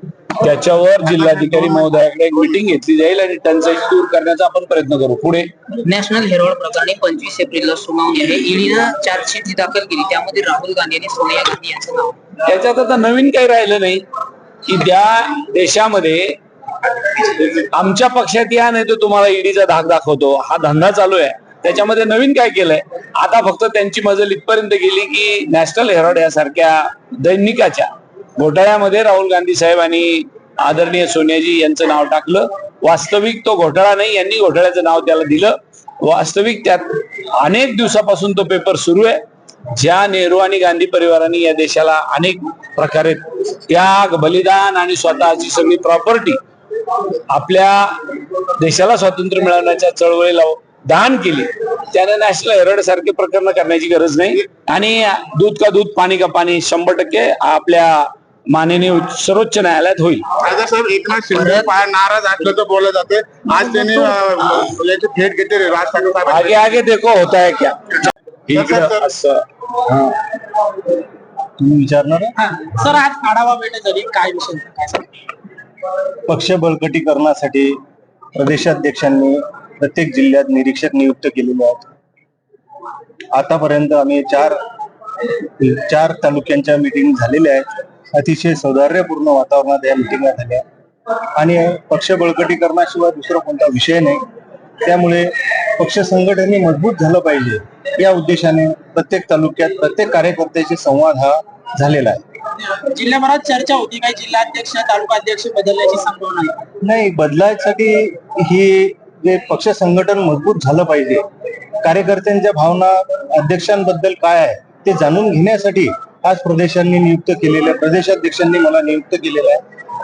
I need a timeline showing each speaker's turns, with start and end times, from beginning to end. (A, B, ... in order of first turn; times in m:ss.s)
0:00.4-0:05.5 A
0:01.3-0:01.6 B
0:05.8-0:12.2 C
0:12.4-0:14.0 A
0:14.6-0:16.4 A
0:17.1-0:39.2 A
0:39.7-0:46.4 A
0:47.3-0:48.0 A
0:48.6-1:00.2 A
1:00.4-1:06.6 D
1:06.2-1:10.2 A
1:08.5-1:09.1 D
1:11.6-1:12.3 E
1:12.4-1:15.1 B
1:16.3-1:17.8 E
1:18.3-1:21.8 E
1:23.3-1:24.6 E
1:25.6-1:30.6 E
1:31.4-1:34.2 E
1:34.8-1:42.2 E
1:42.7-1:46.6 B
1:46.8-1:51.2 E
1:51.8-1:59.6 E